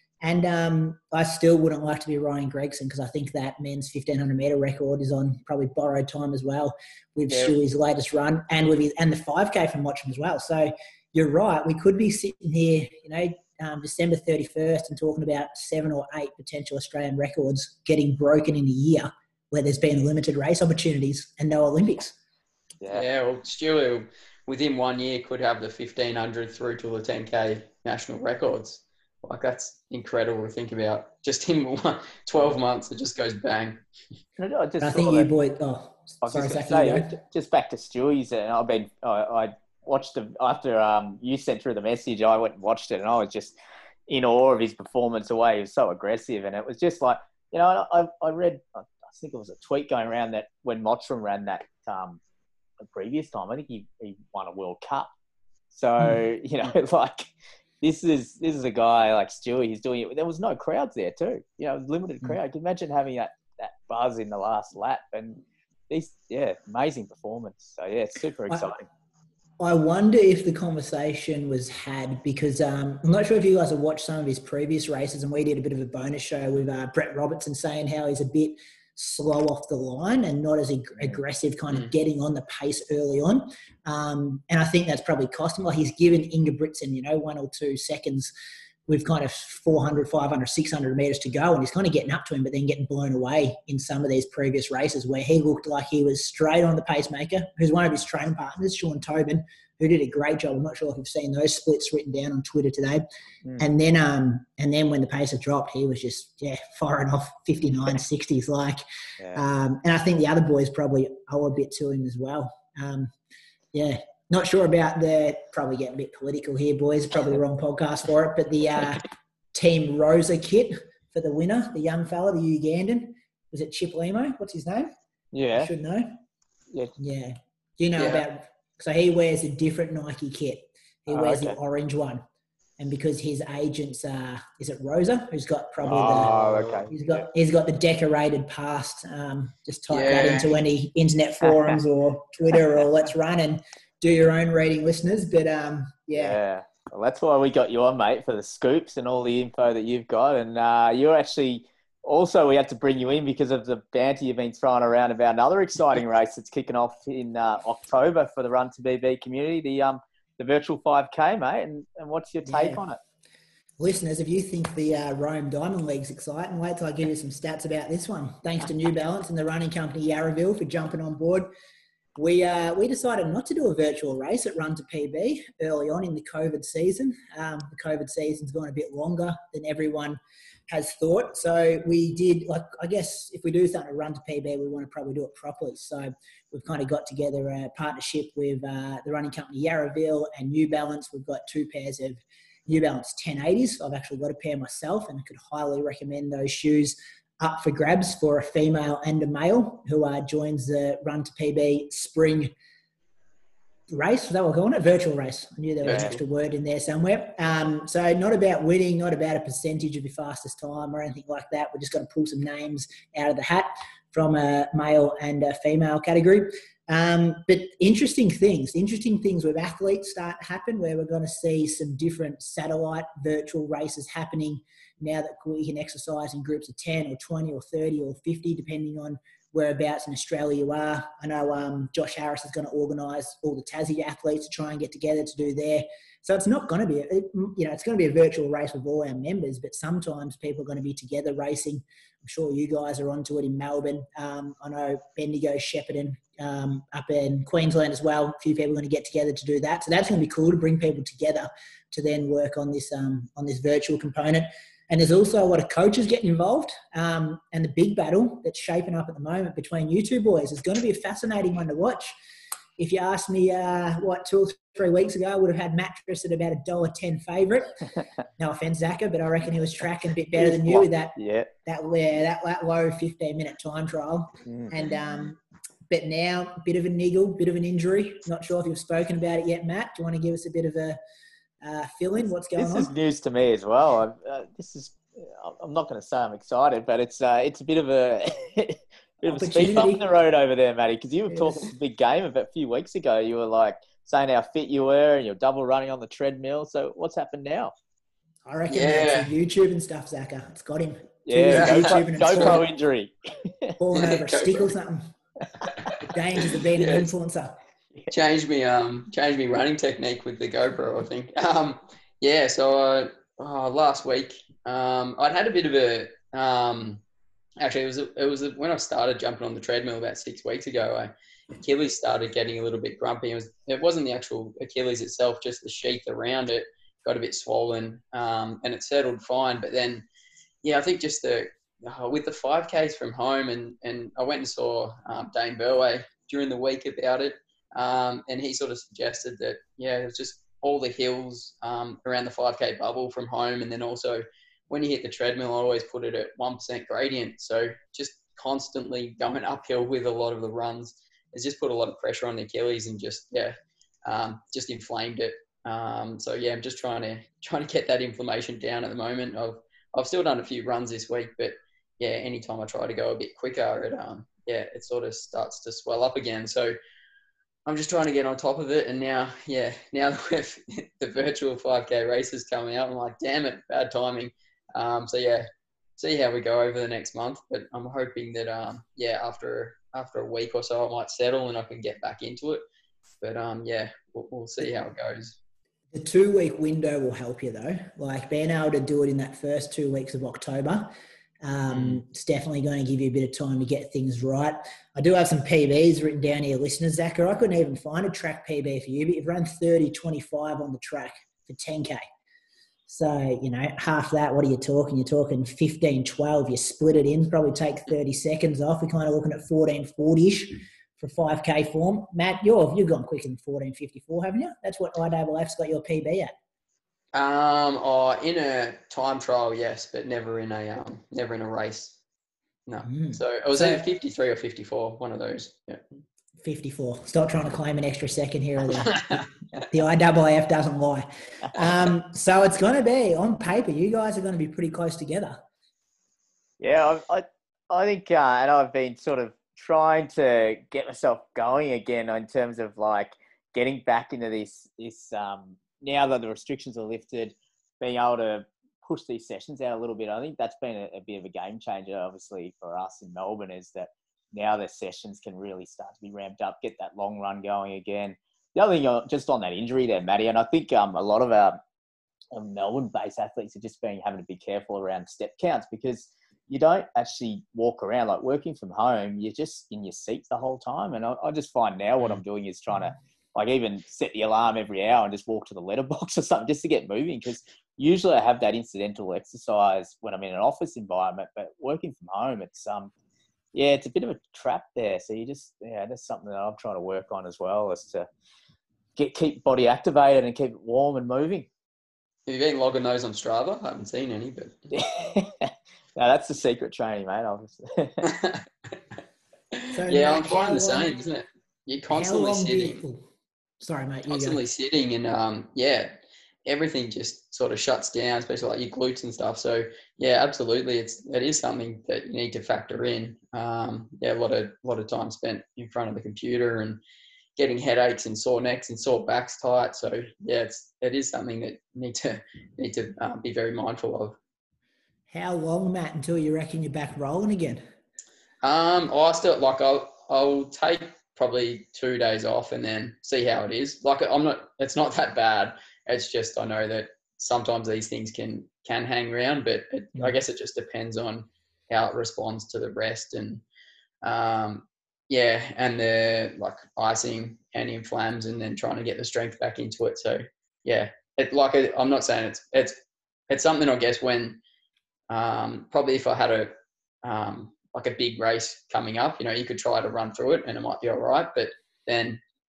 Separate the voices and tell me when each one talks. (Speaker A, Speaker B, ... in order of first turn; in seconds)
Speaker A: 0.2-22.2, 34.8-37.1, 69.6-88.3, 88.9-103.0, 103.6-108.8, 109.3-113.1, 113.7-124.9, 125.5-126.2, 127.0-132.2, 132.8-146.4, 162.5-162.8, 163.8-171.5, 172.2-202.5, 203.9-262.1, 262.8-267.8, 268.4-281.0, 281.6-282.9, 289.2-290.0, 291.3-291.7, 298.5-302.7, 303.8-305.1, 306.0-307.6, 385.9-402.1, 402.9-416.3, 422.8-423.8, 426.4-435.4, 499.7-501.0, 501.9-503.1, 503.6-504.4, 525.1-527.6
Speaker B: 7.3-7.5, 34.4-35.3, 36.2-43.6, 44.1-52.2, 52.8-55.1, 55.7-68.9, 109.2-109.5, 125.3-125.7, 131.1-131.6, 135.8-137.0, 141.4-141.8, 146.2-163.0, 270.4-271.5, 274.5-274.7, 282.6-297.7, 301.3-303.8, 436.6-461.6, 462.3-482.9, 483.5-488.1, 489.0-491.5, 494.7-498.0
Speaker C: 22.9-33.8, 128.0-128.2, 136.0-136.9, 139.9-140.5, 205.8-206.2, 298.7-299.3, 301.5-302.6, 303.9-304.7, 306.8-307.1, 308.1-317.0, 317.6-330.1, 330.6-366.8, 367.7-375.5, 376.0-382.6, 383.2-385.4, 417.1-422.0, 422.7-425.9, 428.9-429.6, 492.3-494.6, 498.0-498.4, 499.6-502.8, 504.1-505.9, 506.5-516.8, 517.4-524.2, 528.4-543.4, 544.0-552.8, 553.3-554.4, 555.1-562.2